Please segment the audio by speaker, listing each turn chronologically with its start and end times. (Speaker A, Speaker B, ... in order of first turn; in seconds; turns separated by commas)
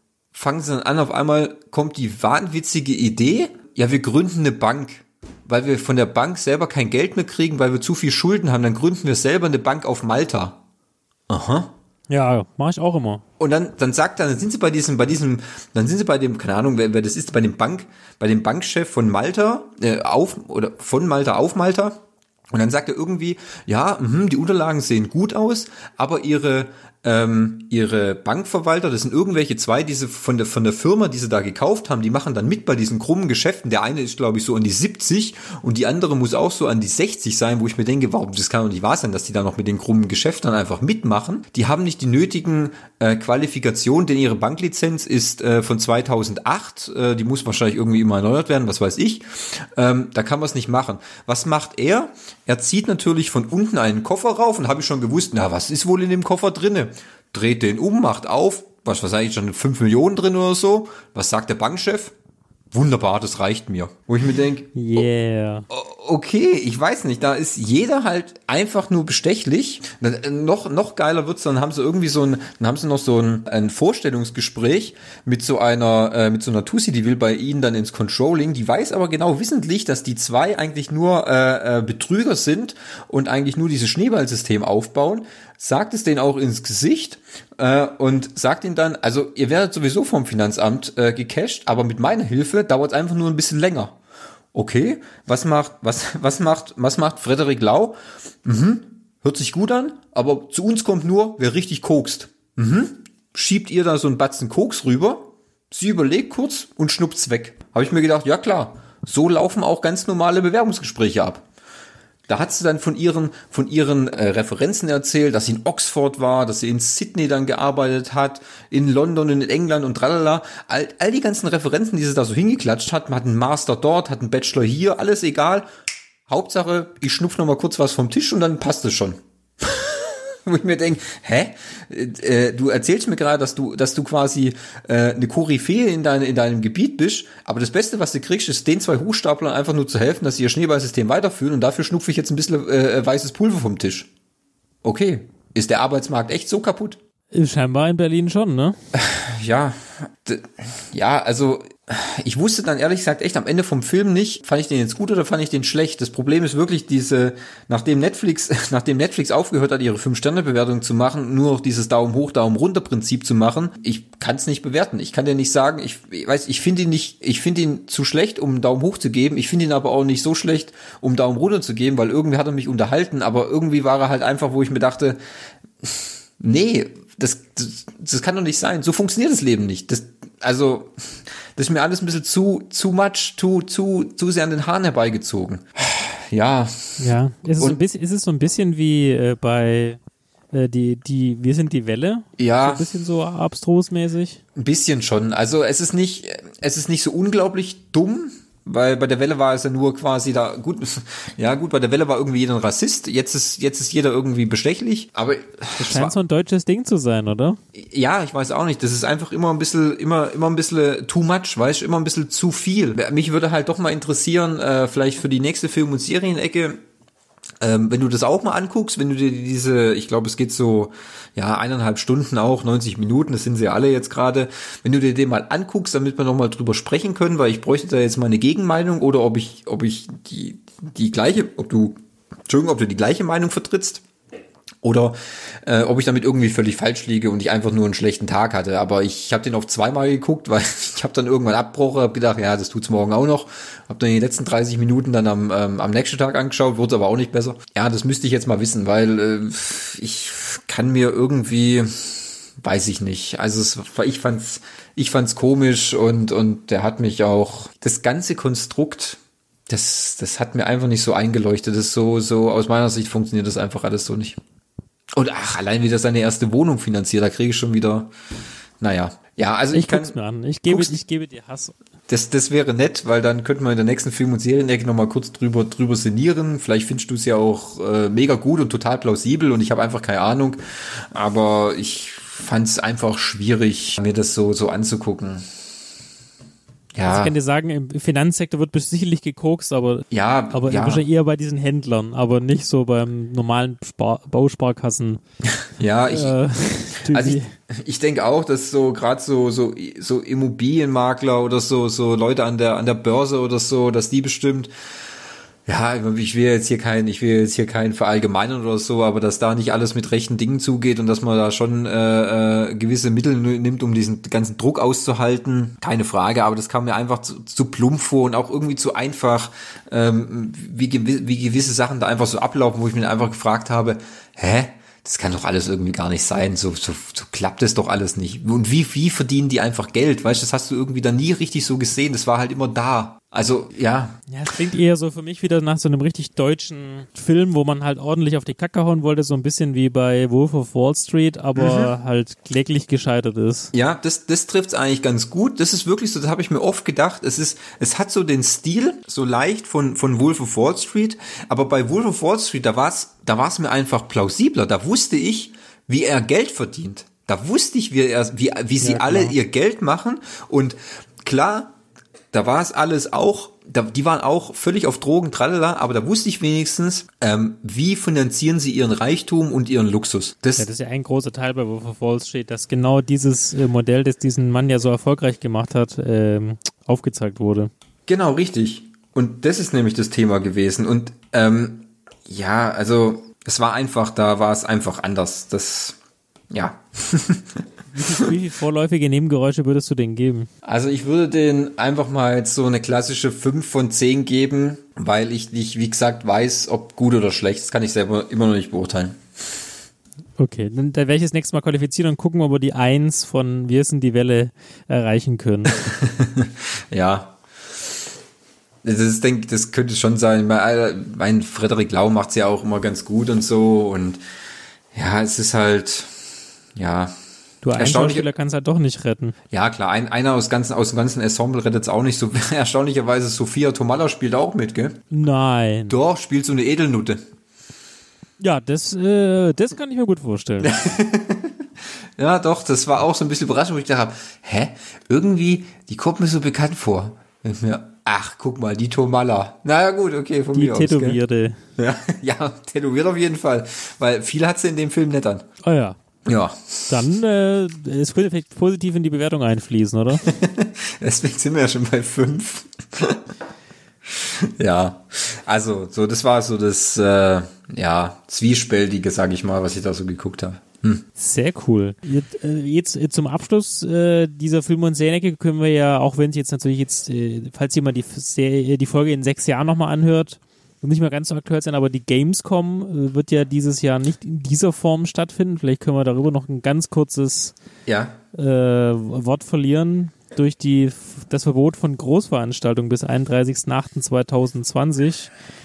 Speaker A: 0.3-10.6, Speaker A: 11.3-11.7, Speaker B: 12.1-13.2, Speaker A: 13.4-22.0, Speaker A: 22.5-62.1, Speaker A: 62.7-65.0, Speaker B: 64.8-65.7, Speaker A: 65.7-94.0, Speaker A: 94.5-111.4, Speaker A: 112.3-125.7, Speaker A: 126.3-144.1, Speaker A: 144.8-147.0, Speaker B: 147.3-148.8, Speaker A: 148.9-175.2, Speaker A: 175.8-187.1, Speaker B: 187.0-190.0, Speaker B: 190.5-194.4, Speaker A: 192.4-192.9, Speaker A: 194.6-206.1, Speaker B: 205.8-207.6, Speaker A: 207.7-216.8, Speaker A: 217.6-234.0, Speaker A: 234.8-264.4, Speaker A: 265.1-268.1, Speaker A: 268.8-270.1, Speaker B: 269.7-271.8, Speaker A: 270.7-271.0, Speaker A: 272.1-285.4, Speaker A: 286.9-287.4, Speaker B: 287.0-295.2, Speaker A: 290.1-291.1, Speaker A: 295.8-296.4, Speaker B: 296.1-297.5, Speaker A: 297.0-304.7, Speaker A: 305.7-334.2, Speaker B: 334.3-343.7, Speaker A: 341.6-341.9, Speaker A: 343.7-361.8, Speaker B: 358.8-359.4, Speaker A: 362.3-370.7, Speaker B: 370.6-377.7, Speaker A: 378.1-385.9, Speaker A: 386.5-387.6, Speaker B: 387.9-390.5, Speaker A: 390.6-399.6, Speaker B: 400.4-405.8, Speaker A: 405.7-407.4, Speaker A: 408.8-414.2, Speaker A: 414.9-416.2, Speaker A: 416.8-417.1, Speaker B: 417.6-419.4, Speaker A: 417.8-418.3, Speaker A: 419.5-425.0, Speaker B: 425.1-425.9, Speaker A: 425.9-427.2, Speaker B: 428.4-430.9, Speaker A: 430.6-431.6, Speaker A: 432.2-441.2, Speaker B: 440.5-441.6, Speaker A: 441.8-445.5, Speaker B: 445.6-446.0, Speaker A: 446.2-446.9, Speaker B: 446.9-450.3, Speaker A: 450.2-453.3, Speaker A: 454.1-461.0, Speaker B: 461.2-477.6, Speaker A: 477.9-478.2, Speaker B: 478.4-485.3